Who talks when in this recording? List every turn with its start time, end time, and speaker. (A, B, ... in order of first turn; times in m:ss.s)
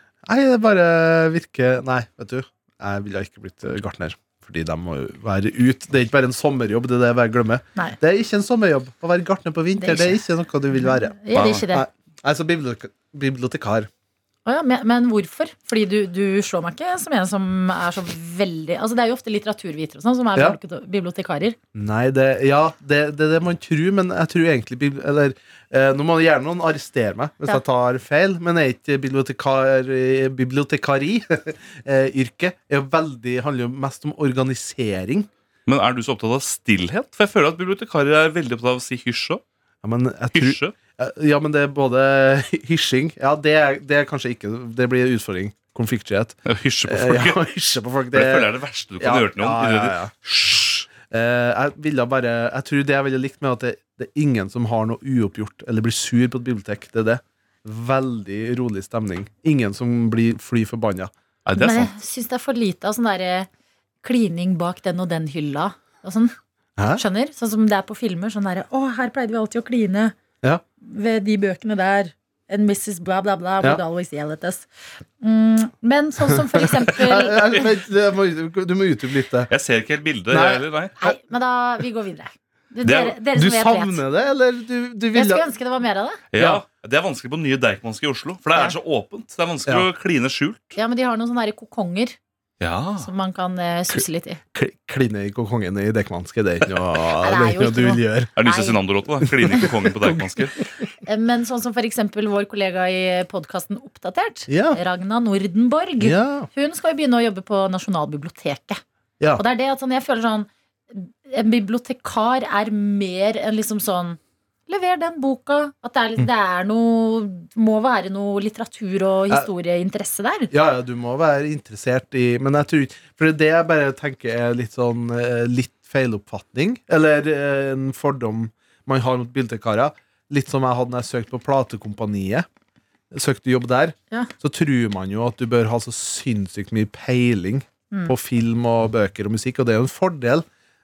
0:00.3-0:13.9 A
0:09.8-0:11.9 B
0:11.3-0:11.6 C
0:14.5-0:21.6 B
0:21.8-0:35.3 A
0:35.7-0:39.4 C
0:39.8-1:01.1 A
0:40.3-0:40.7 C
0:46.5-0:47.4 C
0:48.1-0:50.0 C
1:01.5-1:01.9 C
1:01.6-1:03.5 B
1:04.0-1:06.3 B
1:06.8-1:07.0 A
1:07.0-1:10.2 B
1:10.8-1:14.7 B
1:15.2-1:17.7 B
1:16.4-1:19.5 A
1:19.5-1:20.9 C
1:20.3-1:21.2 A
1:21.0-1:24.0 B
1:22.8-1:23.2 C
1:23.3-1:25.5 A
1:25.1-1:26.2 B
1:26.3-1:30.7 C
1:26.4-1:26.6 A
1:30.8-1:32.2 B
1:32.6-1:33.1 C
1:33.0-1:34.4 B
1:34.5-1:38.3 A
1:37.2-1:38.8 B
1:38.4-1:40.6 C
1:39.2-1:40.9 A
1:41.0-1:48.8 B
1:44.5-1:44.8 A
1:46.0-1:46.5 A
1:49.4-2:00.5 B
2:00.5-2:12.5 A
2:13.1-2:20.5 A